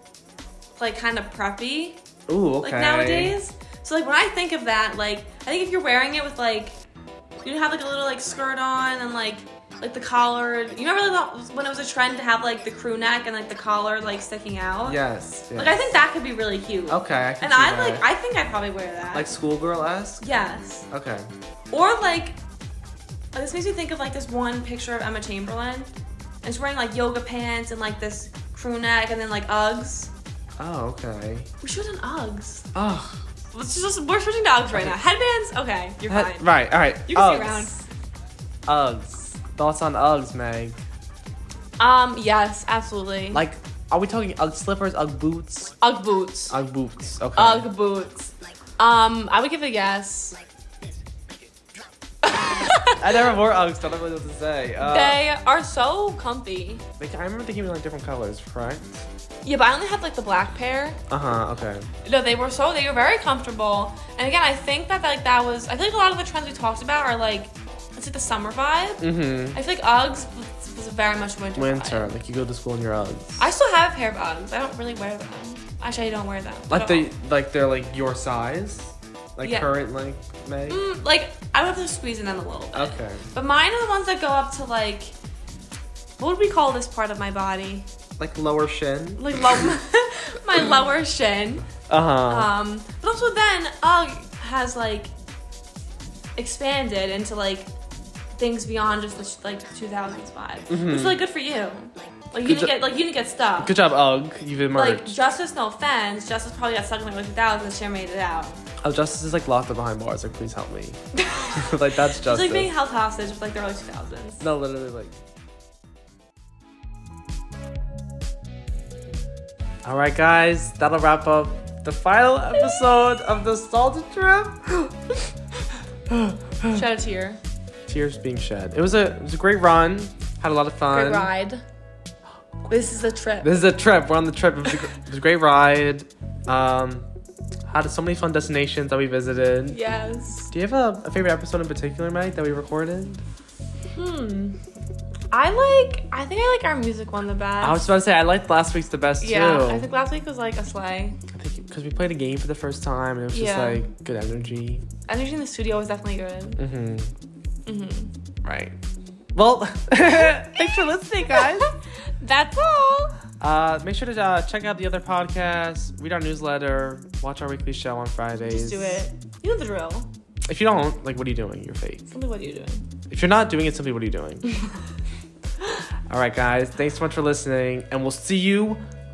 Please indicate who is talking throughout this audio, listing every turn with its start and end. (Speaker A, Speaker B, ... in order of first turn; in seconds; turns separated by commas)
Speaker A: 0.8-2.0, Speaker B: 2.3-3.3, Speaker A: 2.6-6.8, Speaker A: 7.4-15.0, Speaker B: 14.8-15.8, Speaker A: 15.5-19.3, Speaker B: 16.9-18.0, Speaker B: 19.1-20.2, Speaker A: 20.2-20.9, Speaker B: 20.9-21.3, Speaker A: 21.7-22.4, Speaker A: 23.3-25.9, Speaker A: 26.4-30.1, Speaker B: 30.6-31.5, Speaker A: 31.6-32.7, Speaker B: 32.7-33.2, Speaker A: 33.5-37.8, Speaker B: 36.1-37.7, Speaker B: 38.7-40.8, Speaker A: 41.8-43.4, Speaker B: 43.3-45.7, Speaker A: 45.8-46.5, Speaker B: 46.5-47.7, Speaker A: 47.3-50.4, Speaker A: 52.2-53.4, Speaker B: 53.0-55.2, Speaker A: 54.8-56.8, Speaker B: 57.0-59.0, Speaker A: 59.4-61.0, Speaker B: 61.1-61.9, Speaker A: 62.0-72.1, Speaker B: 69.0-69.6, Speaker B: 71.5-73.5, Speaker A: 73.4-77.1, Speaker B: 76.7-80.8, Speaker A: 79.4-79.7, Speaker A: 80.7-85.1, Speaker B: 82.7-83.3, Speaker A: 86.2-87.9, Speaker B: 88.2-89.4, Speaker A: 89.2-91.7, Speaker B: 91.9-92.5, Speaker A: 92.3-95.1, Speaker A: 96.3-97.7, Speaker A: 98.3-103.7, Speaker B: 100.7-101.2, Speaker B: 102.4-102.7, Speaker B: 103.6-105.2, Speaker A: 104.7-108.6, Speaker B: 108.8-111.0, Speaker A: 111.1-114.4, Speaker B: 111.5-112.7, Speaker B: 114.4-115.1, Speaker B: 119.8-125.2, Speaker B: 126.1-126.8, Speaker A: 126.7-127.4, Speaker B: 127.9-131.3, Speaker A: 130.9-131.6, Speaker A: 132.7-133.5, Speaker B: 133.4-137.1, Speaker B: 137.7-139.8, Speaker A: 139.7-140.5, Speaker B: 140.5-143.2, Speaker A: 143.9-144.6, Speaker A: 145.3-147.8, Speaker B: 147.6-149.9, Speaker A: 149.2-151.2, Speaker B: 151.3-154.8, Speaker A: 153.3-153.8, Speaker A: 155.1-156.6, Speaker B: 156.6-157.1, Speaker A: 157.7-158.1, Speaker B: 158.4-158.8, Speaker B: 159.3-161.7, Speaker A: 160.0-163.1, Speaker B: 163.4-169.0, Speaker A: 168.5-170.1, Speaker B: 170.5-172.1, Speaker A: 172.1-172.9, Speaker B: 173.1-174.5, Speaker A: 174.4-174.8, Speaker B: 176.1-178.8